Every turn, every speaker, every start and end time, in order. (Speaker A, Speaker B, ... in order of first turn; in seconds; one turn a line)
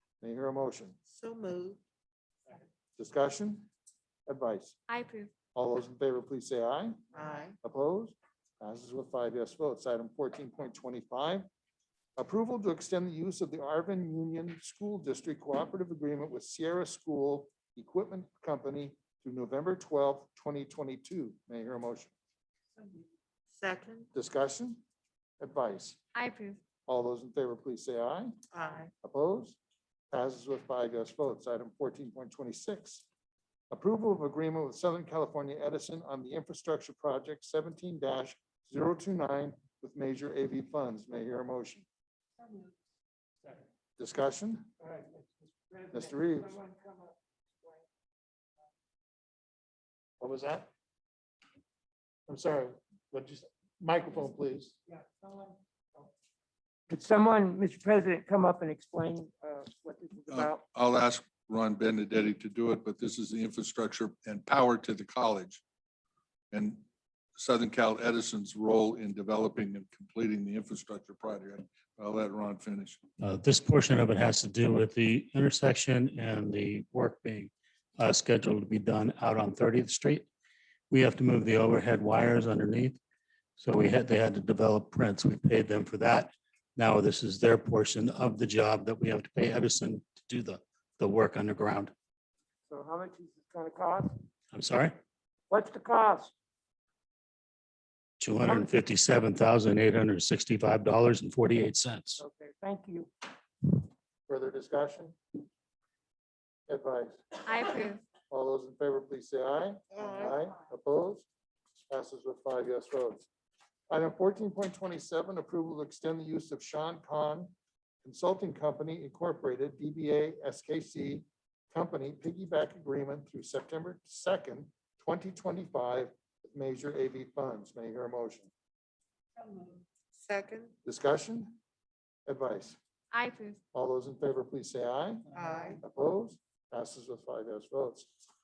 Speaker A: 0.2-1.0
Speaker B: 1.1-1.8
Speaker A: 3.0-3.7
Speaker A: 4.3-4.8
Speaker C: 4.9-5.3
Speaker A: 5.5-7.0
Speaker B: 7.1-7.6
Speaker A: 7.6-11.5
Speaker A: 12.2-22.1
Speaker B: 23.5-24.1
Speaker A: 24.1-24.8
Speaker A: 25.4-26.0
Speaker C: 26.1-26.6
Speaker A: 26.9-28.4
Speaker B: 28.5-28.9
Speaker A: 29.0-29.6
Speaker A: 30.1-33.1
Speaker A: 33.7-41.9
Speaker D: 42.4-42.7
Speaker A: 44.0-44.7
Speaker D: 44.8-47.8
Speaker A: 45.9-46.6
Speaker A: 50.2-50.7
Speaker A: 52.3-54.8
Speaker D: 55.1-55.5
Speaker D: 56.9-60.6
Speaker E: 60.3-65.6
Speaker E: 66.5-66.8
Speaker E: 67.4-73.0
Speaker F: 73.2-80.3
Speaker F: 80.9-83.0
Speaker F: 83.6-91.9
Speaker D: 92.7-94.2
Speaker F: 94.5-95.0
Speaker D: 95.5-96.3
Speaker F: 98.2-102.2
Speaker D: 102.2-103.1
Speaker A: 104.3-105.2
Speaker A: 106.7-107.5
Speaker C: 107.5-108.0
Speaker A: 108.3-111.3
Speaker B: 109.9-110.4
Speaker A: 111.9-113.3
Speaker A: 113.9-128.5
Speaker B: 130.1-130.7
Speaker A: 130.8-131.6
Speaker A: 132.3-132.8
Speaker C: 133.1-133.6
Speaker A: 133.7-135.3
Speaker B: 135.3-135.8
Speaker A: 135.8-138.2